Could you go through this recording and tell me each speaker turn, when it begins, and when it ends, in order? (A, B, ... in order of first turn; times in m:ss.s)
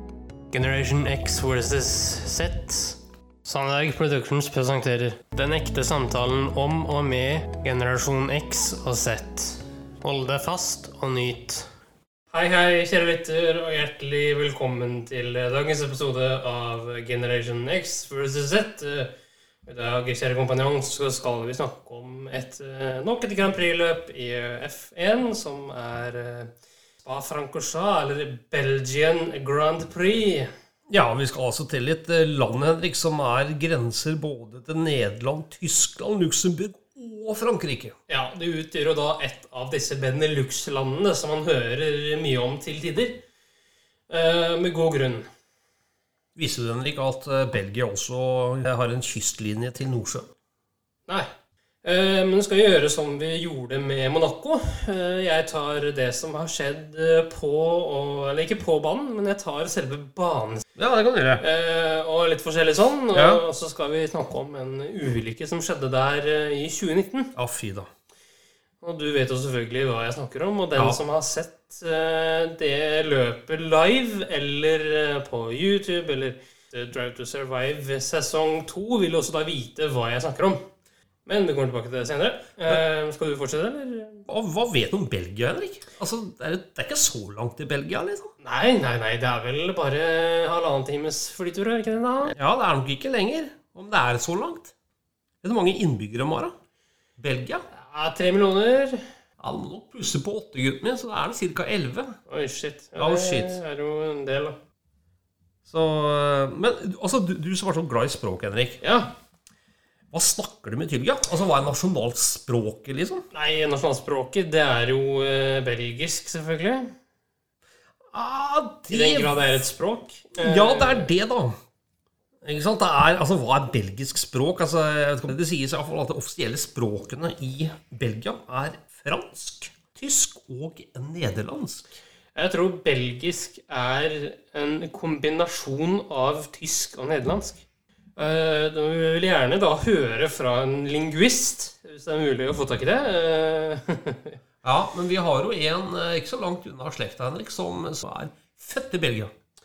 0:00.5-0:11.7 A
0:12.3-0:19.1 A
0:19.6-0:26.5 A
0:27.0-0:30.5 A
0:30.9-0:37.9 B
0:38.1-0:43.2 A
0:44.1-0:45.2 A
0:46.4-0:50.3 B
0:51.8-1:00.7 A
1:00.8-1:01.4 B
1:01.4-1:07.3 A
1:03.1-1:03.4 B
1:07.3-1:07.9 B
1:08.8-1:20.6 A
1:21.2-1:24.2 A
1:24.3-1:28.3 B
1:28.4-1:32.3 A
1:32.2-1:34.7 B
1:35.4-1:36.5 B
1:37.2-1:37.6 B
1:37.8-1:39.0 A
1:39.4-1:42.2 B
1:42.3-1:44.6 A
1:43.0-1:43.6 B
1:45.6-1:48.8 B
1:48.8-1:49.1 A
1:50.1-1:53.2 B
1:53.3-1:56.9 A
1:58.1-1:59.6 B
1:58.9-2:01.1 A
2:00.4-2:01.6 B
2:02.4-2:11.9 B
2:12.3-2:17.6 A
2:18.2-2:24.4 A
2:24.6-2:29.3 B